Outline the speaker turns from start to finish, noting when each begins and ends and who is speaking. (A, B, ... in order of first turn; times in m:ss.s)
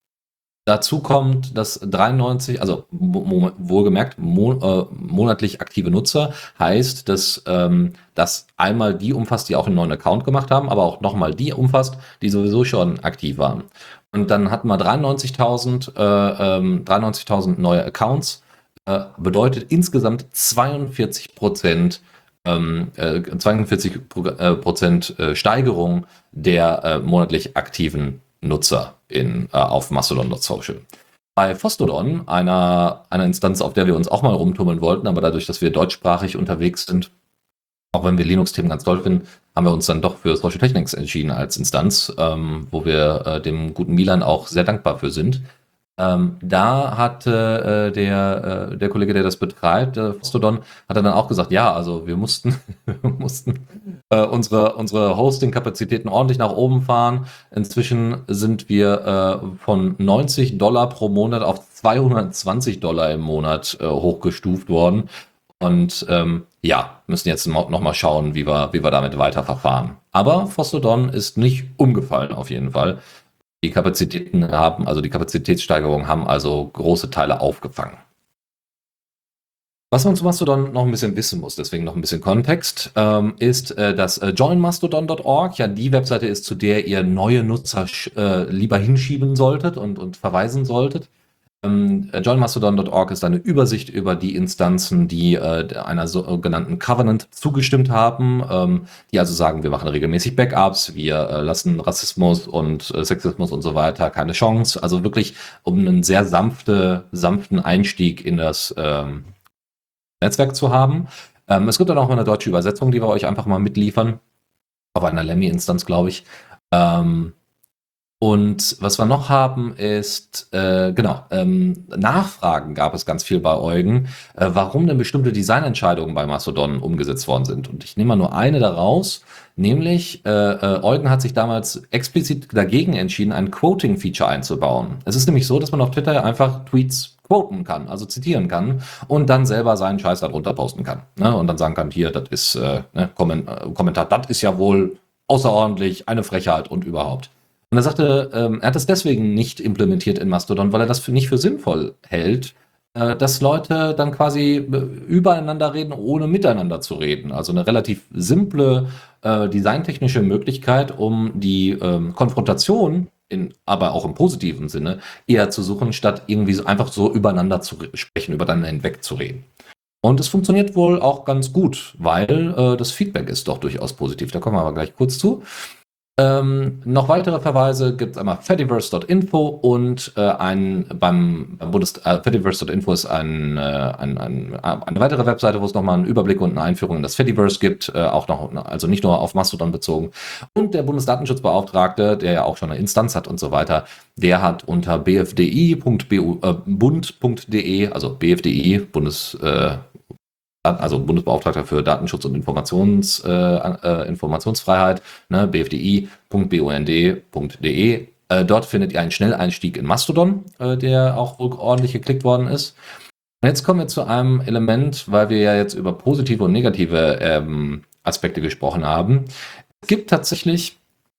0:00.6-0:30.8 A
0:31.4-0:37.1 A
0:37.9-1:13.0 A
1:13.6-1:18.0 A
1:19.9-1:31.1 A
1:31.6-1:49.3 A
1:50.2-1:54.2 A
1:54.9-1:57.3 A
1:58.2-2:49.5 A
2:50.0-2:55.4 A
2:56.2-3:19.8 A
3:20.6-3:32.8 A
3:33.4-3:39.3 A
3:39.8-3:40.8 A